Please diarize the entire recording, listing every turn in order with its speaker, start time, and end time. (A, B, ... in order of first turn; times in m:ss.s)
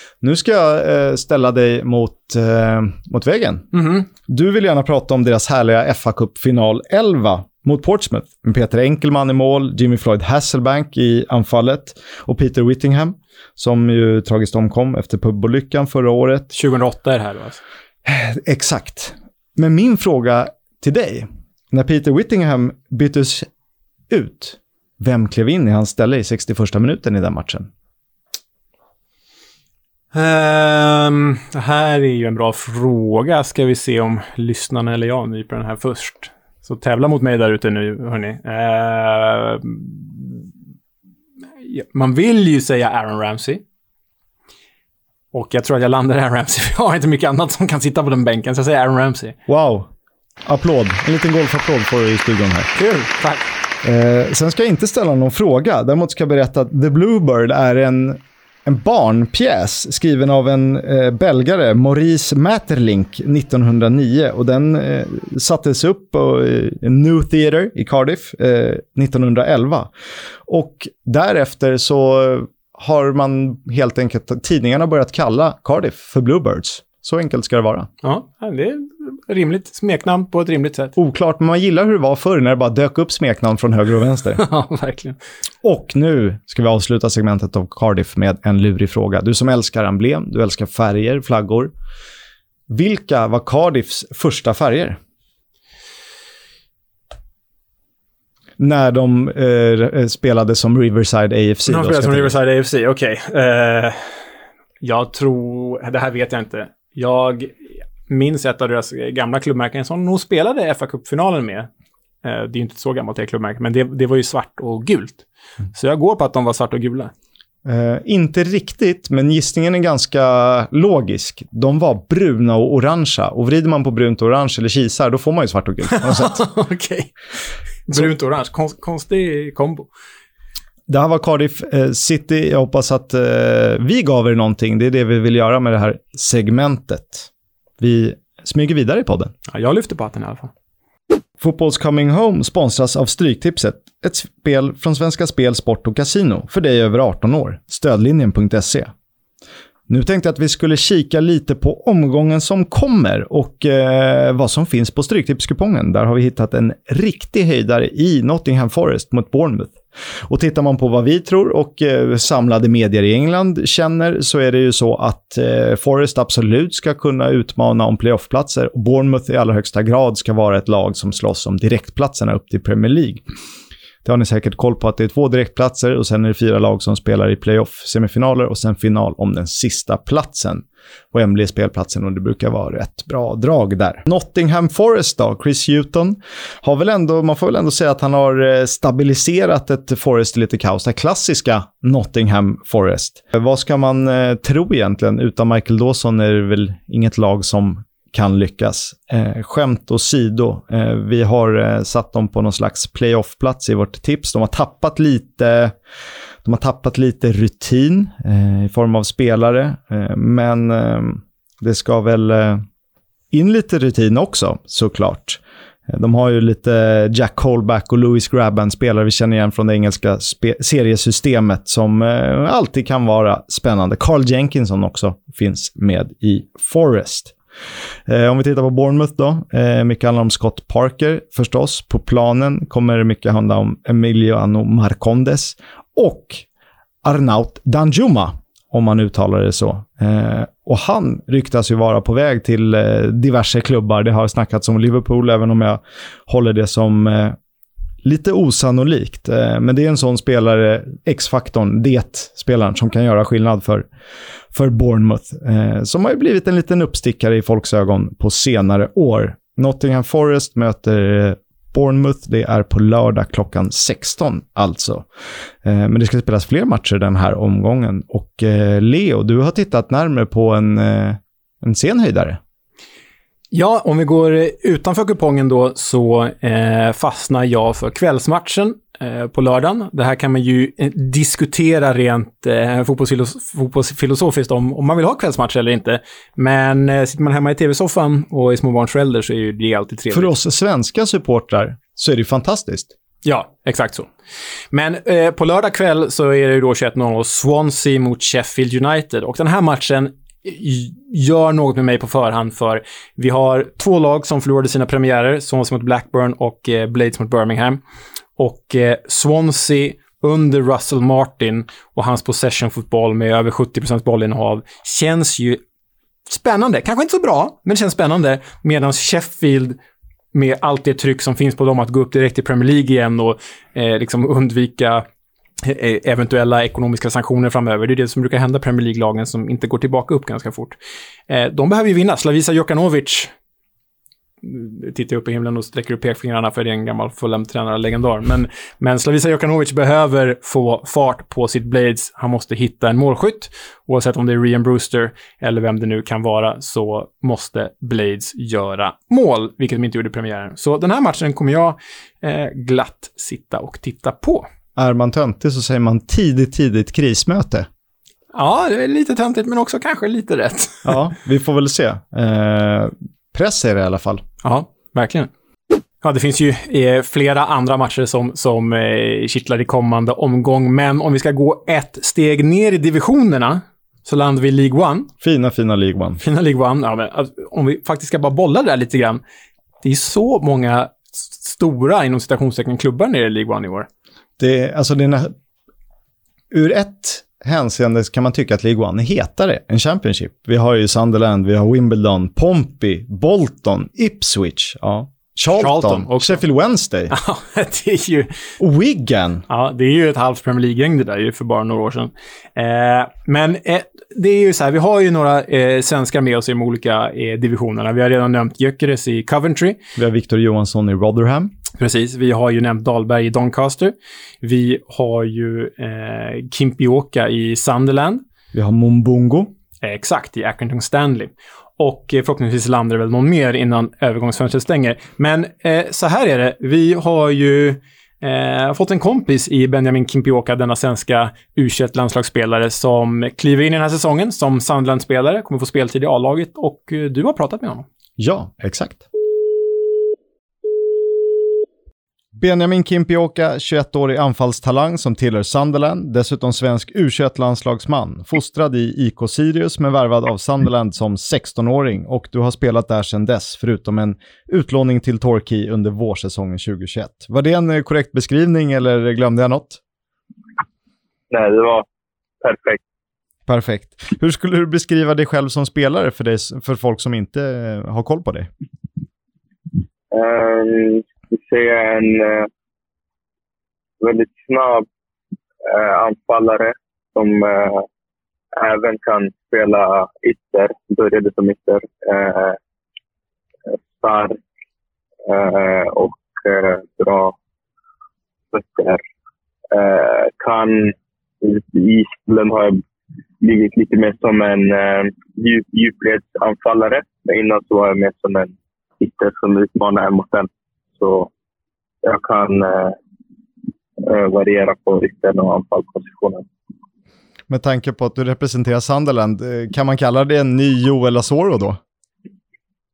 0:00.2-0:16.5 A
0:03.7-0:04.1 B
0:16.5-0:17.6 B
0:18.1-0:23.5 A
0:24.1-0:27.7 A
0:30.1-0:40.5 B
0:41.6-0:43.6 B
0:45.3-0:49.4 B
0:49.5-0:49.9 A
0:50.5-0:52.7 A
0:52.8-0:53.5 B
0:53.8-1:09.9 A
1:10.5-1:17.9 A
1:18.0-1:21.0 B
1:21.0-1:24.4 A
1:24.4-1:25.2 B
1:25.6-1:31.7 A
1:32.7-1:35.0 A
1:38.6-1:42.4 A
1:41.7-1:44.2 B
1:44.8-1:51.7 B
1:52.2-1:57.1 B
1:57.6-2:06.4 A
2:05.9-2:07.1 B
2:07.9-2:09.9 B
2:10.9-2:17.3 A
2:17.8-2:19.3 A
2:19.5-2:20.5 B
2:21.4-2:28.9 A
2:29.9-2:53.2 A
2:54.0-3:25.8 A
3:26.4-3:32.6 A
3:33.3-3:47.4 A
3:48.1-3:56.4 A
3:57.0-4:07.4 A
4:08.0-4:13.9 A
4:14.5-4:25.1 A
4:25.6-4:32.4 A
4:33.5-4:50.3 B
4:50.1-4:52.9 A
4:53.2-4:54.1 B
4:54.7-5:07.8 B
5:08.4-5:15.6 B
5:16.3-5:19.8 B
5:20.3-5:25.1 B
5:25.6-5:30.8 B
5:31.3-5:33.3 B
5:34.4-5:54.5 B
5:54.8-5:57.7 A
5:58.3-6:01.0 B
6:00.8-6:04.2 A
6:04.4-6:05.3 B
6:06.0-6:15.1 B
6:15.2-6:16.2 A
6:16.2-6:19.2 B
6:19.8-6:23.9 B
6:24.4-6:25.3 A
6:26.5-6:37.1 A
6:35.5-6:36.4 B
6:37.1-6:38.3 B
6:38.6-6:39.5 A
6:39.5-6:49.8 B
6:50.0-6:51.5 A
6:51.8-6:58.2 B
6:58.5-6:59.5 A
6:59.8-7:17.8 B
7:18.2-7:19.0 A
7:22.4-7:39.8 A
7:41.3-7:41.8 C
7:42.4-7:42.8 C
7:43.5-7:48.5 A
7:50.1-7:52.5 C
7:54.0-7:54.9 C
7:55.6-7:57.9 C
7:58.6-8:02.6 C
8:03.7-8:04.4 C
8:05.3-8:07.4 C
8:08.5-8:09.0 C
8:09.7-8:12.8 C
8:13.4-8:21.3 C
8:22.0-8:23.0 C
8:24.0-8:26.4 C
8:27.5-8:31.8 A